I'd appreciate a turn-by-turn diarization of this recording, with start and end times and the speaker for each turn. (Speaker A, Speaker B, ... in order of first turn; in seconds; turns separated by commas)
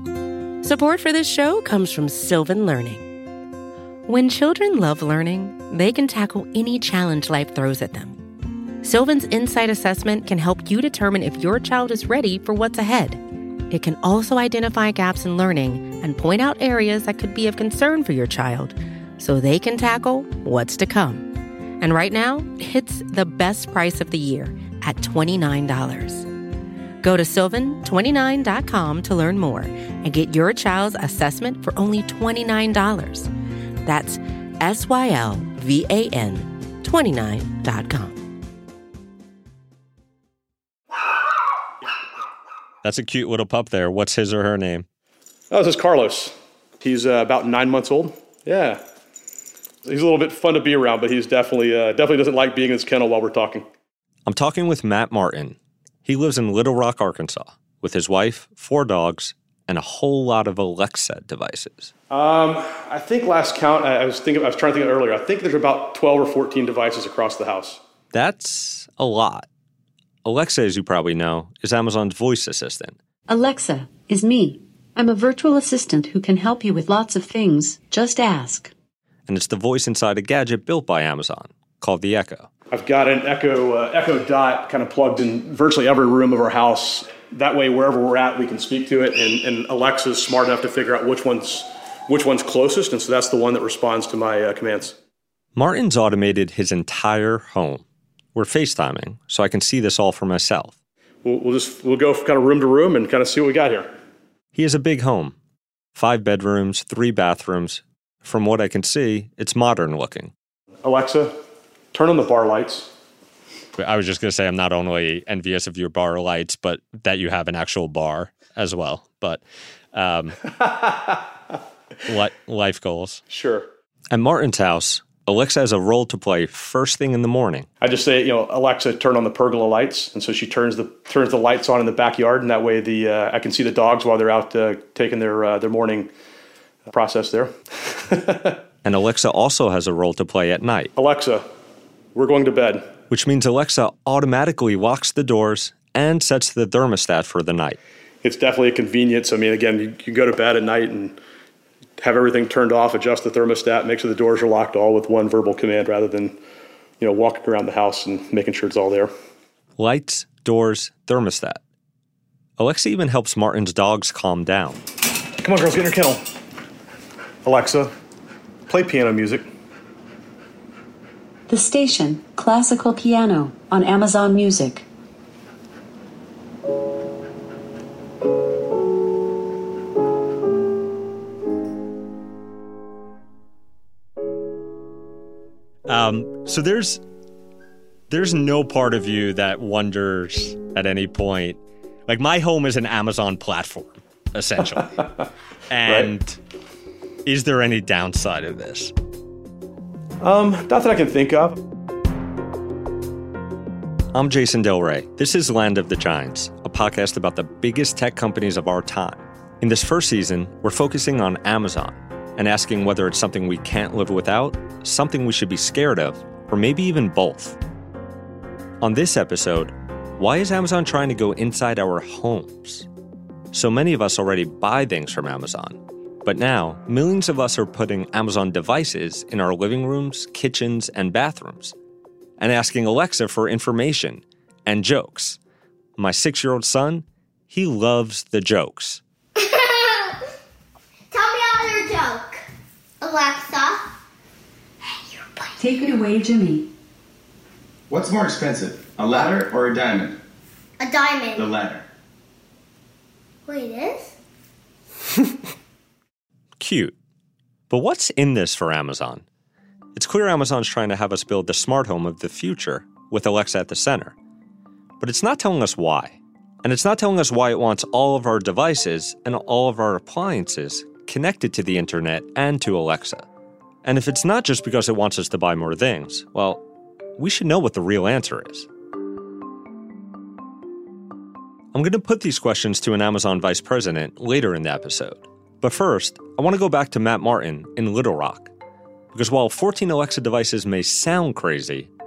Speaker A: 0.6-3.1, Speaker A: 4.0-8.2, Speaker A: 8.8-26.3, Speaker A: 27.0-33.3, Speaker A: 33.8-38.2, Speaker B: 42.8-44.9, Speaker C: 45.5-48.8, Speaker C: 49.8-53.7, Speaker B: 54.2-61.9, Speaker C: 62.1-67.8, Speaker B: 68.1-69.5, Speaker B: 70.2-73.0, Speaker D: 73.3-78.7, Speaker B: 79.3-82.5, Speaker C: 82.7-95.0, Speaker B: 95.5-97.8, Speaker B: 98.3-100.7, Speaker C: 101.2-103.9, Speaker B: 104.5-105.3, Speaker B: 106.0-110.3, Speaker C: 110.8-111.3, Speaker C: 111.9-112.9, Speaker B: 113.8-120.4, Speaker C: 120.6-121.2, Speaker B: 122.0-123.2, Speaker C: 123.3-123.7, Speaker B: 124.1-127.7, Speaker C: 127.8-136.1, Speaker C: 136.8-138.6, Speaker B: 138.8-140.9, Speaker C: 140.9-141.4, Speaker C: 142.1-142.9, Speaker B: 143.1-147.8, Speaker C: 148.2-151.2, Speaker C: 152.0-156.4, Speaker C: 157.0-159.1, Speaker B: 159.8-161.6, Speaker B: 162.6-164.8, Speaker C: 165.4-166.2, Speaker C: 167.4-167.9, Speaker C: 168.7-169.4, Speaker D: 171.5-174.8, Speaker B: 185.8-187.0, Speaker B: 188.1-195.0, Speaker B: 195.7-196.4, Speaker C: 195.8-196.1, Speaker B: 197.2-198.9, Speaker C: 200.2-201.6, Speaker B: 204.1-217.6, Speaker B: 218.8-222.9, Speaker B: 223.5-231.7, Speaker B: 232.4-235.4, Speaker B: 236.0-239.0, Speaker E: 239.4-240.2, Speaker E: 241.1-242.4, Speaker E: 243.0-243.9, Speaker E: 245.0-245.6, Speaker D: 245.6-246.7, Speaker F: 247.9-250.2, Speaker E: 250.8-251.5, Speaker F: 251.4-251.8, Speaker E: 253.4-254.1, Speaker B: 256.6-256.9, Speaker B: 257.7-259.2, Speaker B: 259.9-264.1, Speaker B: 265.0-273.2, Speaker B: 273.8-276.6, Speaker B: 277.2-278.7, Speaker B: 281.7-288.5, Speaker B: 289.1-291.9